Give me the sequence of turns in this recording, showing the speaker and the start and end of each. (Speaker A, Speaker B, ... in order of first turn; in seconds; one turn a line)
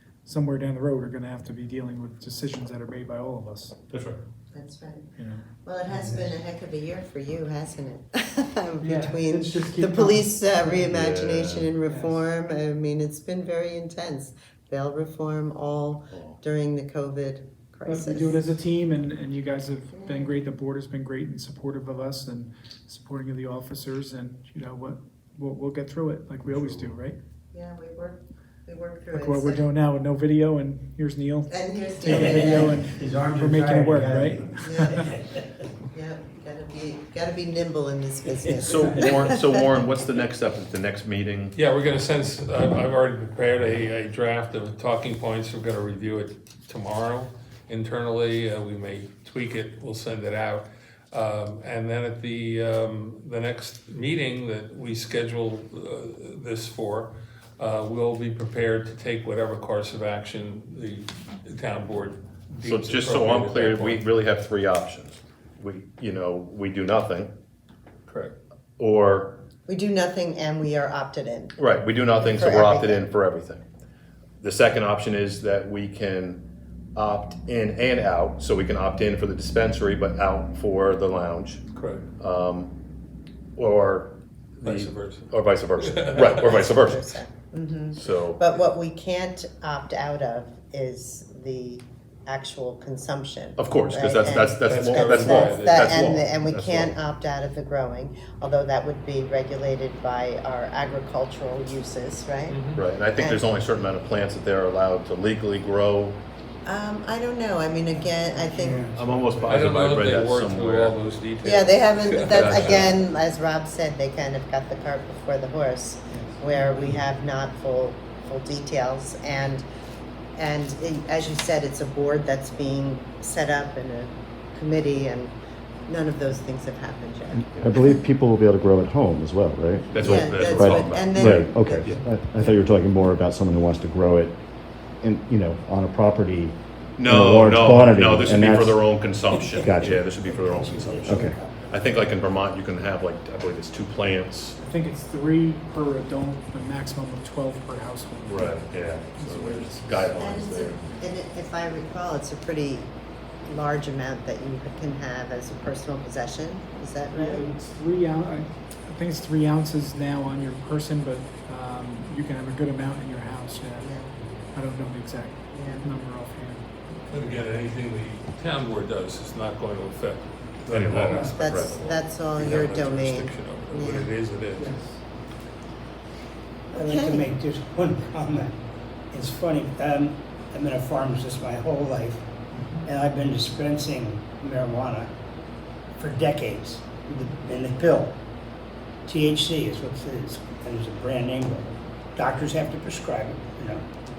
Speaker A: 0.3-3.8
Speaker B: 3.9-4.2
Speaker C: 4.5-5.1
Speaker A: 5.2-6.2
Speaker C: 5.6-18.4
Speaker A: 8.8-10.9
Speaker B: 10.9-11.7
Speaker A: 11.9-12.3
Speaker B: 16.1-16.4
Speaker A: 17.9-27.2
Speaker C: 19.9-20.4
Speaker C: 27.5-29.6
Speaker A: 29.1-35.1
Speaker C: 31.5-32.7
Speaker D: 32.0-35.4
Speaker C: 34.6-35.1
Speaker C: 35.9-39.7
Speaker D: 38.3-39.3
Speaker B: 38.6-41.5
Speaker E: 41.5-64.0
Speaker B: 62.6-67.3
Speaker E: 68.1-68.3
Speaker B: 68.8-69.5
Speaker C: 69.7-71.6
Speaker B: 71.6-73.7
Speaker C: 72.2-73.1
Speaker B: 74.4-81.6
Speaker E: 81.7-82.1
Speaker B: 82.2-82.8
Speaker B: 83.6-87.1
Speaker E: 84.6-86.5
Speaker C: 86.3-103.5
Speaker B: 87.9-88.5
Speaker B: 93.6-97.0
Speaker E: 94.6-96.1
Speaker E: 102.5-102.8
Speaker B: 102.8-106.2
Speaker C: 106.7-108.9
Speaker D: 108.5-109.5
Speaker B: 108.9-111.0
Speaker E: 109.5-112.9
Speaker C: 111.4-119.7
Speaker B: 112.3-113.0
Speaker C: 120.4-125.3
Speaker C: 125.9-127.5
Speaker F: 127.4-134.4
Speaker B: 129.9-132.0
Speaker C: 130.0-131.9
Speaker F: 135.0-138.9
Speaker B: 137.0-144.6
Speaker D: 139.3-142.2
Speaker F: 139.6-140.0
Speaker F: 141.1-141.3
Speaker A: 144.6-150.2
Speaker B: 148.3-150.9
Speaker C: 150.2-152.9
Speaker C: 153.4-157.5
Speaker A: 157.2-163.9
Speaker C: 163.8-164.1
Speaker A: 164.5-166.7
Speaker C: 165.5-165.9
Speaker E: 167.1-174.7
Speaker B: 170.7-171.8
Speaker C: 171.3-174.1
Speaker A: 174.6-175.0
Speaker C: 176.7-177.3
Speaker D: 176.7-182.3
Speaker A: 182.6-182.8
Speaker D: 182.8-185.1
Speaker D: 185.9-188.2
Speaker D: 189.1-193.8